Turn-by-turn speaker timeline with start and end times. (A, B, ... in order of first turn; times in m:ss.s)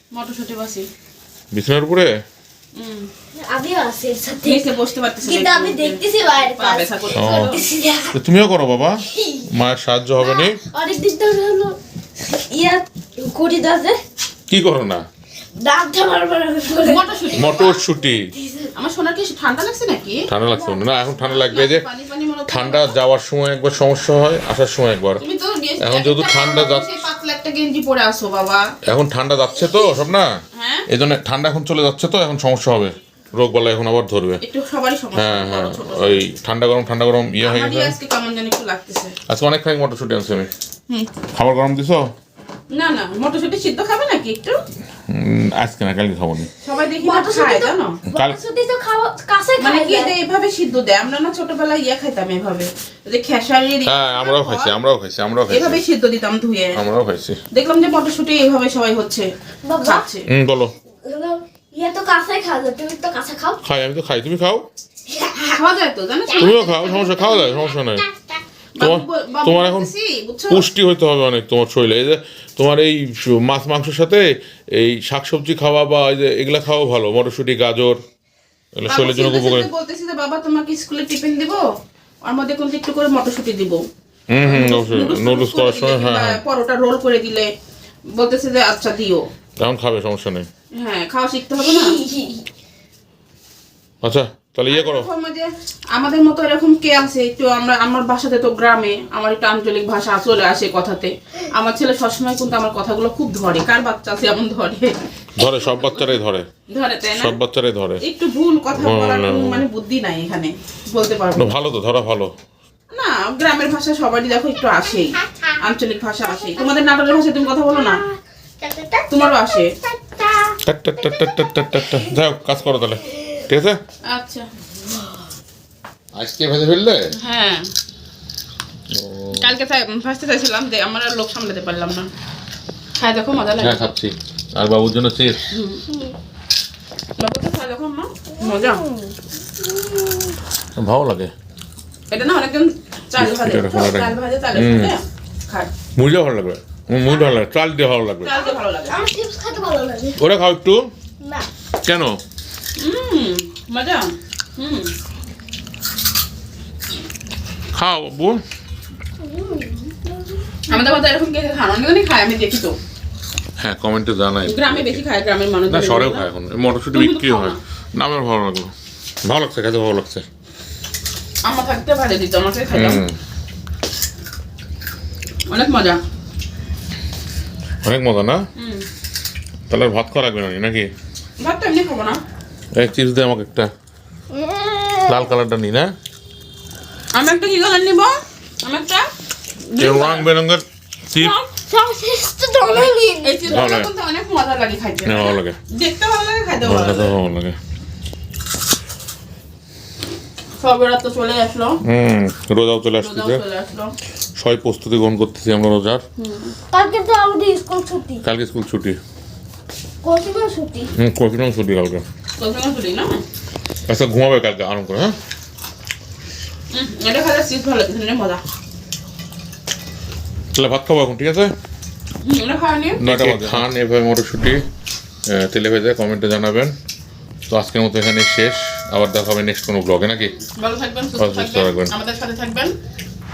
0:00.1-0:00.9 A
0:01.5-0:02.1 B
0:02.8-0:03.1 A
0:03.4-0:04.7 C
0:04.4-0:07.6 A
0:05.2-0:08.2 C
0:07.1-0:07.5 B
0:08.1-0:10.6 B
0:09.1-0:09.5 C
0:10.2-0:14.0 C
0:14.5-0:15.0 B
0:15.6-0:17.7 C
0:16.7-0:17.8 A
0:17.4-0:18.3 B
0:18.3-0:18.7 C
0:18.7-0:20.2 A
0:20.3-0:21.8 B
0:20.6-0:20.8 C
0:21.2-0:22.9 A
0:22.5-0:25.2 B
0:25.2-0:28.7 A
0:25.8-0:26.9 B
0:28.8-0:30.4 B
0:30.6-0:30.9 A
0:30.9-0:34.4 B
0:34.4-0:36.3 A
0:35.2-0:38.0 B
0:37.4-0:39.1 A
0:39.3-0:40.5 B
0:41.3-0:42.0 B
0:42.7-0:44.6 A
0:45.1-0:46.5 B
0:46.6-0:48.0 A
0:47.0-0:50.1 C
0:48.1-0:48.4 B
0:49.6-0:54.8 A
0:53.8-0:55.8 B
0:55.5-0:56.8 A
0:56.7-0:57.4 B
0:57.5-0:59.3 A
0:59.6-1:00.0 C
0:59.8-1:00.3 A
1:00.3-1:00.7 B
1:01.0-1:03.6 C
1:03.6-1:04.7 B
1:05.1-1:05.6 C
1:05.5-1:06.7 A
1:06.3-1:08.2 C
1:06.4-1:08.0 B
1:08.8-1:10.7 A
1:08.8-1:09.9 B
1:10.5-1:18.0 B
1:18.8-1:19.7 B
1:18.9-1:21.6 A
1:22.2-1:23.8 A
1:24.3-1:26.4 B
1:24.4-1:27.5 A
1:28.2-1:29.2 A
1:29.6-1:30.5 B
1:30.8-1:32.0 A
1:31.6-1:32.4 C
1:34.0-1:35.1 B
1:34.7-1:45.0 A
1:45.4-1:46.5 B
1:46.7-1:47.4 A
1:47.2-1:48.0 B
1:48.0-1:51.5 A
1:48.7-1:49.6 B
1:51.4-1:52.3 B
1:52.9-1:58.0 A
1:57.8-1:59.1 C
1:59.1-1:59.7 A
1:59.8-2:01.4 C
2:00.6-2:03.8 B
2:04.1-2:04.5 A
2:06.2-2:07.1 B
2:07.2-2:07.7 A
2:08.9-2:09.6 B
2:09.3-2:12.1 A
2:13.0-2:13.9 A
2:13.6-2:15.4 B
2:15.5-2:15.8 A
2:17.2-2:18.8 A
2:18.4-2:20.4 C
2:20.8-2:21.3 B
2:22.1-2:25.7 A
2:23.2-2:25.0 B
2:26.0-2:28.3 B
2:28.2-2:29.1 A
2:28.3-2:30.2 C
2:30.2-2:30.9 B
2:31.2-2:31.5 C
2:31.8-2:32.2 B
2:32.8-2:34.9 A
2:37.7-2:38.4 B
2:39.2-2:40.8 C
2:40.7-2:42.8 A
2:43.6-2:45.0 B
2:44.4-2:46.2 A
2:45.7-2:48.7 B
2:46.9-2:47.6 A
2:49.2-2:50.3 B
2:51.4-2:53.0 A
2:52.7-2:53.2 B
2:55.5-2:56.0 A
2:57.8-2:58.4 B
2:58.6-2:58.8 A
2:59.7-3:00.9 B
3:01.4-3:02.2 A
3:02.8-3:03.7 B
3:04.3-3:05.3 C
3:05.1-3:05.9 B
3:07.1-3:09.1 A
3:09.7-3:10.3 A
3:09.8-3:11.4 B
3:11.2-3:11.5 A
3:11.7-3:13.6 C
3:13.2-3:17.2 A
3:13.5-3:13.9 B
3:15.0-3:15.6 B
3:16.6-3:17.6 B
3:20.6-3:21.8 A
3:21.9-3:23.4 B
3:23.0-3:23.9 A
3:24.4-3:26.0 B
3:26.2-3:26.6 A
3:26.7-3:28.2 C
3:28.2-3:29.0 B
3:30.0-3:30.9 C
3:31.0-3:32.0 B
3:32.4-3:33.2 A
3:33.9-3:35.2 B
3:36.7-3:38.4 A
3:40.5-3:41.5 B
3:42.2-3:43.3 A
3:43.0-3:44.6 B
3:45.3-3:46.7 B
3:47.5-3:50.4 B
3:50.4-3:52.8 A
3:51.2-3:51.9 B